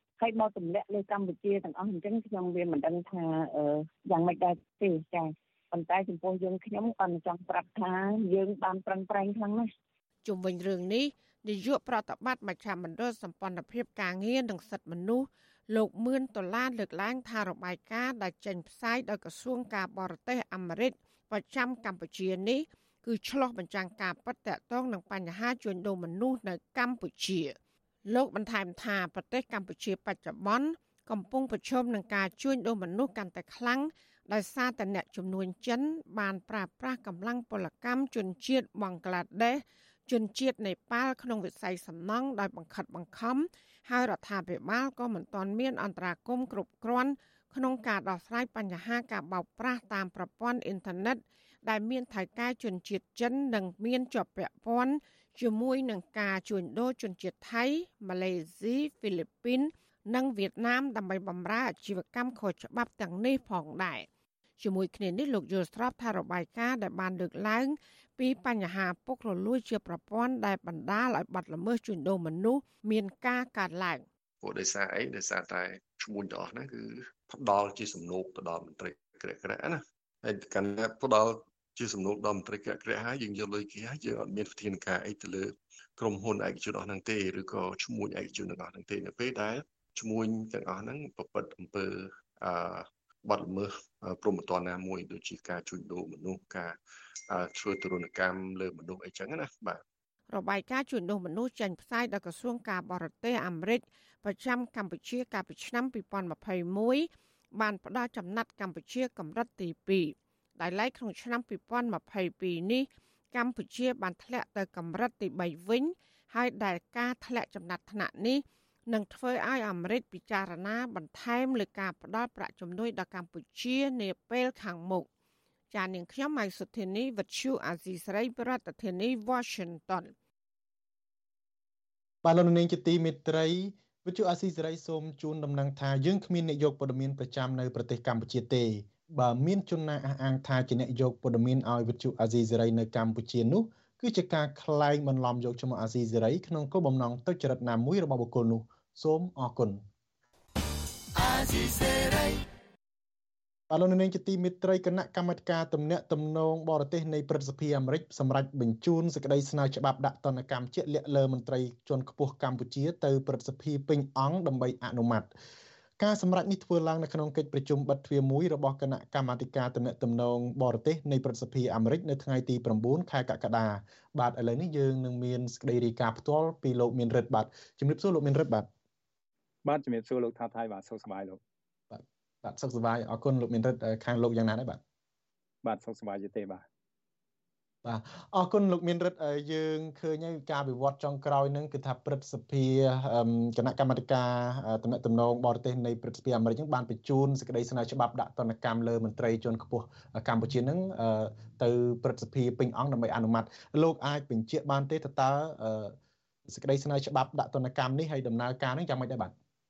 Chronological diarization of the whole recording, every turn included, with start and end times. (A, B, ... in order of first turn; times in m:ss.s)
0:00.2-0:09.7 A
0:10.2-1:04.1 B
1:04.6-1:14.0 B
1:14.4-1:36.8 C
1:37.3-1:39.8 C
1:40.3-2:05.1 B
2:05.7-2:10.1 B
2:12.2-2:29.8 D
2:33.7-2:45.3 D
2:46.0-2:58.7 D
2:59.6-3:01.4 E
3:01.9-3:04.8 D
3:05.6-3:06.6 E
3:07.8-3:26.0 D
3:26.5-3:29.3 D